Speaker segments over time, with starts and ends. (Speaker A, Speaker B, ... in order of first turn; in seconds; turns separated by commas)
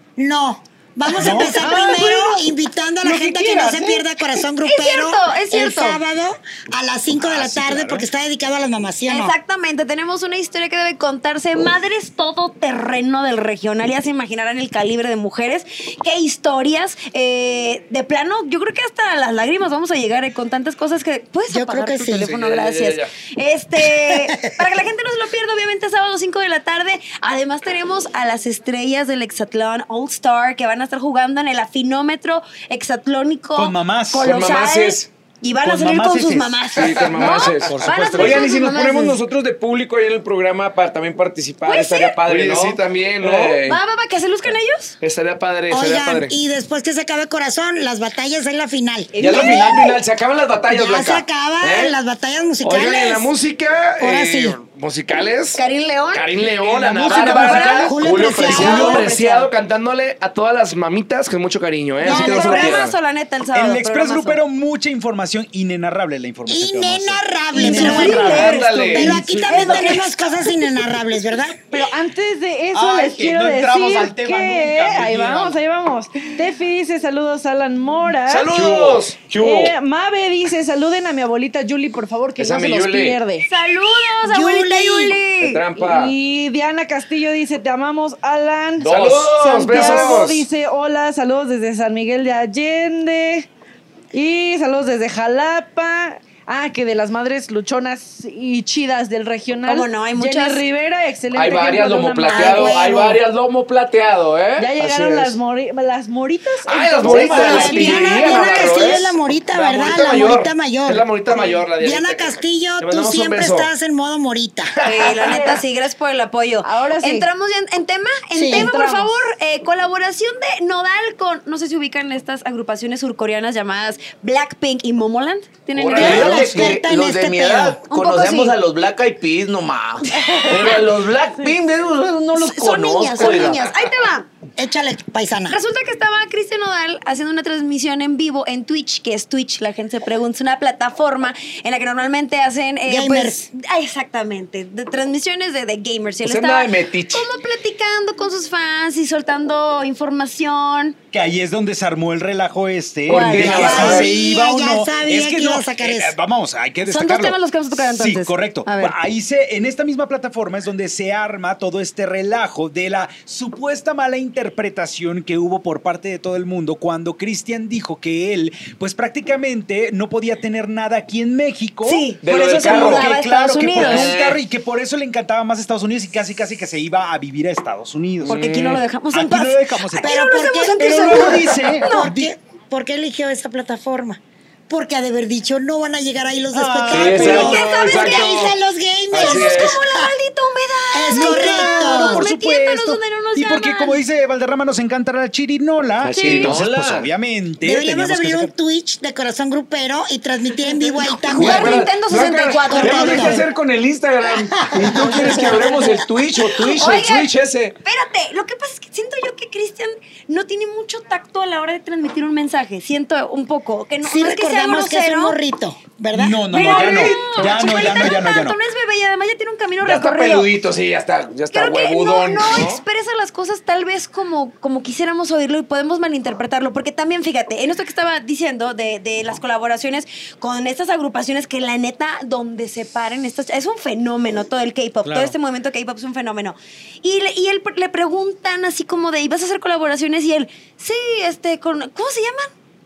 Speaker A: 0.2-9.3, Speaker B: 1.1-2.2, Speaker C: 1.2-2.3, Speaker B: 3.0-4.0, Speaker C: 4.7-6.0, Speaker B: 7.1-8.1, Speaker C: 9.1-39.2, Speaker A: 21.5-22.3, Speaker D: 22.2-23.1, Speaker A: 23.8-24.6, Speaker B: 33.5-34.3, Speaker E: 34.1-35.1, Speaker B: 35.6-36.6, Speaker E: 36.8-43.8, Speaker D: 36.8-37.5, Speaker B: 37.7-38.6, Speaker C: 41.7-42.2, Speaker D: 42.3-43.6, Speaker C: 43.6-44.9, Speaker D: 45.0-46.4, Speaker A: 45.7-49.8, Speaker C: 49.1-50.0, Speaker E: 49.2-52.0, Speaker A: 50.7-53.3, Speaker D: 52.6-63.0, Speaker A: 54.0-54.6, Speaker C: 55.6-56.3, Speaker B: 56.4-58.0, Speaker C: 57.1-59.5, Speaker A: 57.8-59.1, Speaker E: 58.1-58.6, Speaker C: 62.0-64.4, Speaker A: 62.0-62.4, Speaker B: 62.2-62.7, Speaker B: 63.5-70.0, Speaker A: 66.5-71.9, Speaker C: 67.5-70.2, Speaker D: 68.0-69.2, Speaker F: 71.7-78.5, Speaker B: 72.7-75.6, Speaker D: 78.3-79.2, Speaker E: 78.5-79.7, Speaker F: 79.4-83.5, Speaker E: 82.4-83.2, Speaker C: 83.4-85.6, Speaker A: 84.2-85.2, Speaker E: 85.4-86.1, Speaker F: 85.8-93.5, Speaker D: 88.8-90.5, Speaker E: 88.8-89.7, Speaker C: 89.7-90.1, Speaker F: 94.1-102.8, Speaker C: 99.7-100.6, Speaker E: 101.3-105.4, Speaker A: 102.3-103.2, Speaker F: 104.6-108.3, Speaker D: 106.7-113.7, Speaker E: 107.0-109.2, Speaker A: 107.1-114.8, Speaker C: 107.3-108.7, Speaker D: 114.8-115.5, Speaker C: 114.8-126.8, Speaker F: 115.1-115.6, Speaker F: 116.6-117.3, Speaker A: 118.3-118.7, Speaker F: 118.5-119.2, Speaker E: 125.7-133.8, Speaker A: 126.0-127.8, Speaker B: 126.0-126.7, Speaker C: 127.9-128.6, Speaker C: 130.2-130.8, Speaker C: 132.3-134.3, Speaker A: 134.6-135.6, Speaker C: 135.5-151.0, Speaker A: 142.9-143.5, Speaker E: 146.2-147.3, Speaker B: 151.1-178.5, Speaker C: 153.1-154.2, Speaker E: 153.1-154.1, Speaker A: 153.5-156.2, Speaker C: 156.8-159.0, Speaker C: 171.8-174.2, Speaker E: 172.2-173.1, Speaker E: 173.7-174.4, Speaker E: 178.2-178.9, Speaker C: 178.3-182.2, Speaker B: 179.1-180.2, Speaker A: 180.0-190.1, Speaker B: 180.8-182.3, Speaker B: 186.5-187.7, Speaker E: 186.9-188.6, Speaker C: 187.3-188.5, Speaker E: 189.1-189.8, Speaker C: 189.2-194.0, Speaker A: 190.9-192.3, Speaker B: 191.1-198.5, Speaker E: 196.0-197.1, Speaker F: 196.2-196.5, Speaker A: 197.6-201.8, Speaker E: 201.2-207.8, Speaker C: 201.3-203.4, Speaker A: 202.7-203.4, Speaker A: 204.6-206.4, Speaker C: 206.5-215.4, Speaker A: 214.0-216.8, Speaker B: 216.1-218.6, Speaker C: 216.4-220.5, Speaker E: 217.2-218.1, Speaker E: 219.8-222.8, Speaker C: 221.5-242.5, Speaker B: 235.0-235.3